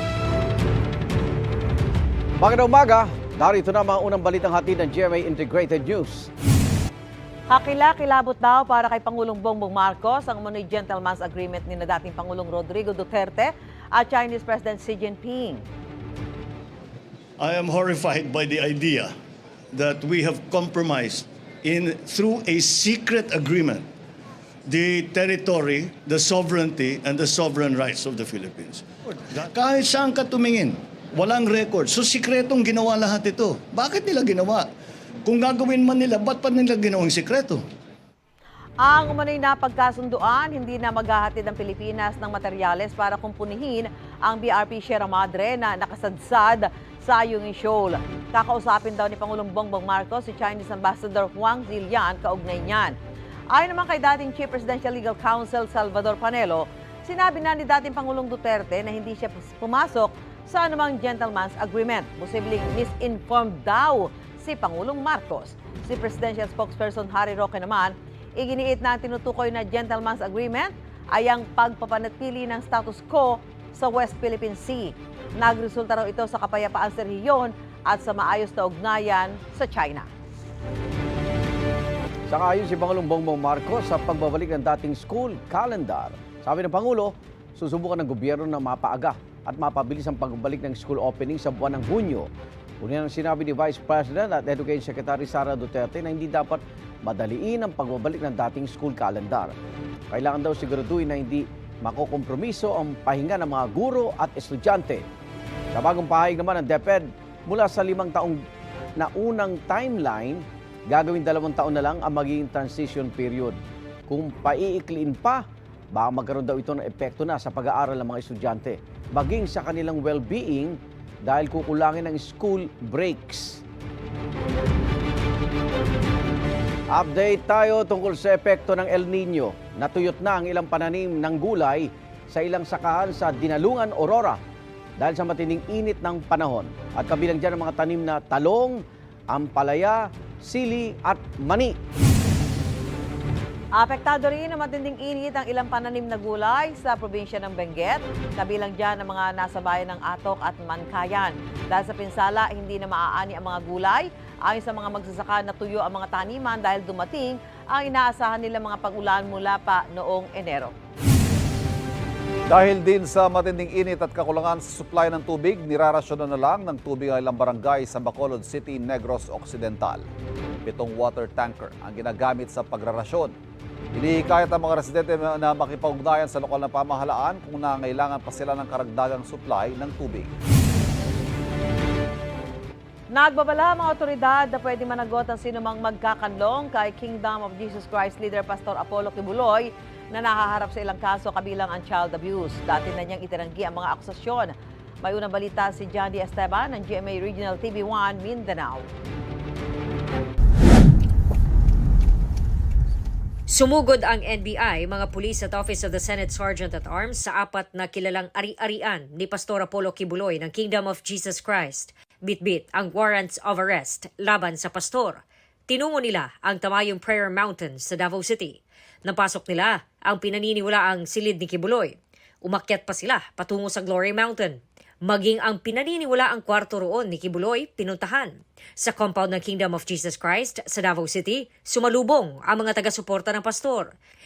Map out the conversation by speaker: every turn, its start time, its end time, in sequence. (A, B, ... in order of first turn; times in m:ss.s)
0:02.4-0:06.3 A
0:07.5-0:15.6 B
0:20.2-0:20.8 C
0:22.6-0:23.8 C
0:24.8-0:27.8 C
0:30.2-0:30.7 C
0:31.5-0:32.1 C
0:33.4-0:34.0 C
0:38.8-0:53.0 B
0:53.5-1:20.1 B
1:22.3-1:32.3 A
1:32.8-1:39.5 A
1:40.1-1:45.0 A
1:45.7-1:48.4 A
1:49.0-2:03.6 A
2:06.9-2:14.4 A
2:15.0-2:21.8 A
2:23.8-2:40.7 B
2:42.5-2:50.0 D
2:50.6-2:53.3 D
2:53.9-3:00.3 D
3:03.1-3:18.9 B
3:23.5-3:41.9 E
3:42.4-3:53.9 E